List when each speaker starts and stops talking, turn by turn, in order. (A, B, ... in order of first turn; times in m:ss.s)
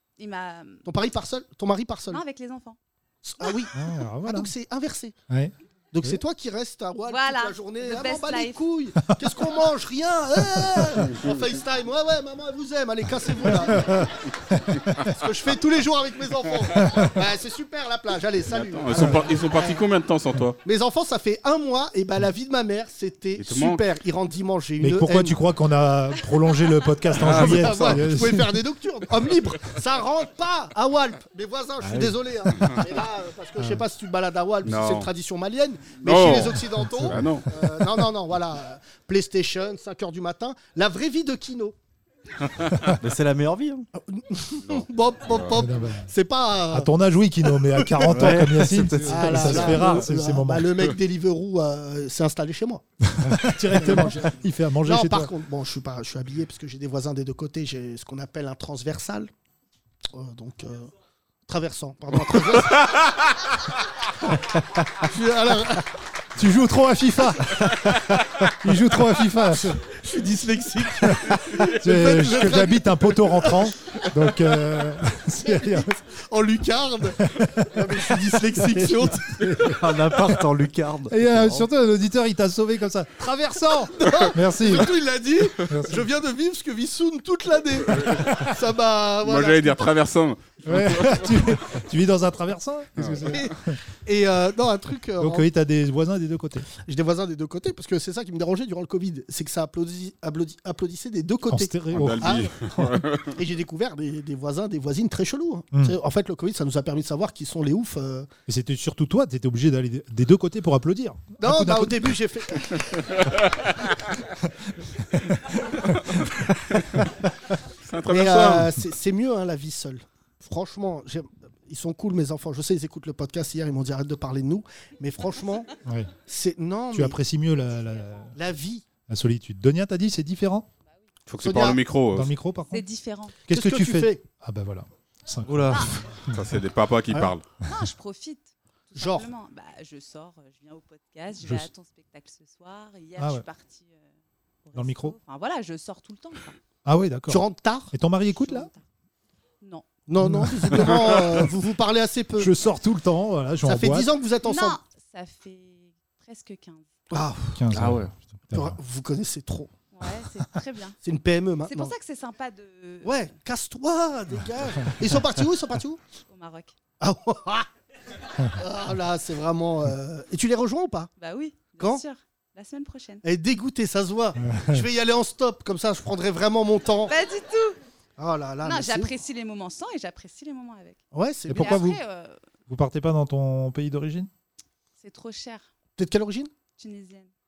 0:00.2-0:00.8 A
0:00.8-0:02.2 B
0:02.1-0:02.8 A
0:03.2-0:03.7 B
0:03.7-0:04.5 C
0:04.2-0:05.1 B
0:05.3-0:06.2 C
0:05.9-0:14.1 B
0:07.1-0:08.6 A
0:10.5-0:10.8 C
0:11.1-0:11.3 D
0:13.7-0:15.0 C
0:14.9-0:19.7 B
0:16.8-0:17.1 C
0:18.5-0:20.6 D
0:20.6-0:25.4 B
0:23.4-0:23.8 D
0:24.8-0:28.6 C
0:27.2-0:28.0 D
0:27.2-0:41.7 B
0:31.8-0:32.2 E
0:33.6-0:33.8 C
0:34.6-0:35.1 D
0:36.0-0:37.5 D
0:36.7-0:37.3 C
0:43.0-0:43.8 E
0:44.0-0:46.9 B
0:44.6-0:45.6 D
0:45.5-0:46.1 C
0:46.7-0:50.7 C
0:48.0-0:50.0 E
0:49.0-0:52.8 B
0:53.0-0:55.3 C
0:53.7-0:59.3 B
1:00.1-1:00.9 B
1:01.5-1:03.0 B
1:05.0-1:05.9 B
1:06.4-1:07.7 C
1:07.7-1:08.2 E
1:08.5-1:09.8 C
1:09.5-1:13.6 B
1:11.0-1:16.0 C
1:15.4-1:19.4 B
1:17.2-1:20.4 C
1:19.6-1:21.6 E
1:21.1-1:25.0 C
1:23.8-1:29.9 B
1:25.6-1:26.0 C
1:29.2-1:31.6 D
1:30.6-1:33.8 C
1:33.0-1:33.3 D
1:33.2-1:35.4 B
1:35.2-1:36.7 C
1:36.8-1:42.5 B
1:41.5-1:43.0 C
1:41.9-1:43.3 D
1:43.3-1:48.3 B
1:48.5-1:52.2 C
1:51.4-1:53.0 B
1:54.4-1:56.2 C
1:57.8-1:58.7 D
1:58.1-2:05.7 B
2:05.8-2:06.1 C
2:06.3-2:07.2 B
2:06.9-2:08.4 C
2:07.8-2:08.3 A
2:08.3-2:08.8 B
2:09.1-2:10.7 C
2:11.3-2:12.3 D
2:11.4-2:11.8 B
2:12.1-2:12.8 C
2:12.7-2:13.3 A
2:13.5-2:16.5 C
2:13.5-2:14.2 B
2:15.4-2:15.9 E
2:16.3-2:17.4 D
2:17.6-2:24.1 A
2:19.0-2:19.3 B
2:21.4-2:21.7 C
2:23.2-2:23.4 C
2:24.6-2:26.6 A
2:24.7-2:25.2 C
2:26.8-2:28.7 C
2:27.3-2:27.9 B
2:28.4-2:28.8 A
2:30.1-2:32.5 B
2:30.2-2:31.3 C
2:32.4-2:34.1 C
2:33.6-2:34.8 B
2:34.4-2:36.8 A
2:37.1-2:37.6 B
2:37.6-2:38.8 C
2:37.7-2:38.1 E
2:38.5-2:39.7 B
2:39.9-2:41.0 A
2:41.0-2:41.9 B
2:41.6-2:43.3 A
2:43.0-2:46.0 B
2:46.3-2:46.7 A
2:47.0-2:47.7 B
2:48.5-2:51.1 B
2:51.2-2:53.2 A
2:53.2-2:57.1 B
2:54.4-2:54.8 C
2:57.1-2:57.8 A
2:58.2-2:59.1 B
2:58.6-3:02.4 A
3:01.1-3:01.8 B
3:01.5-3:02.0 C
3:02.7-3:04.3 C
3:05.0-3:05.6 A
3:06.0-3:06.5 B
3:06.8-3:07.3 A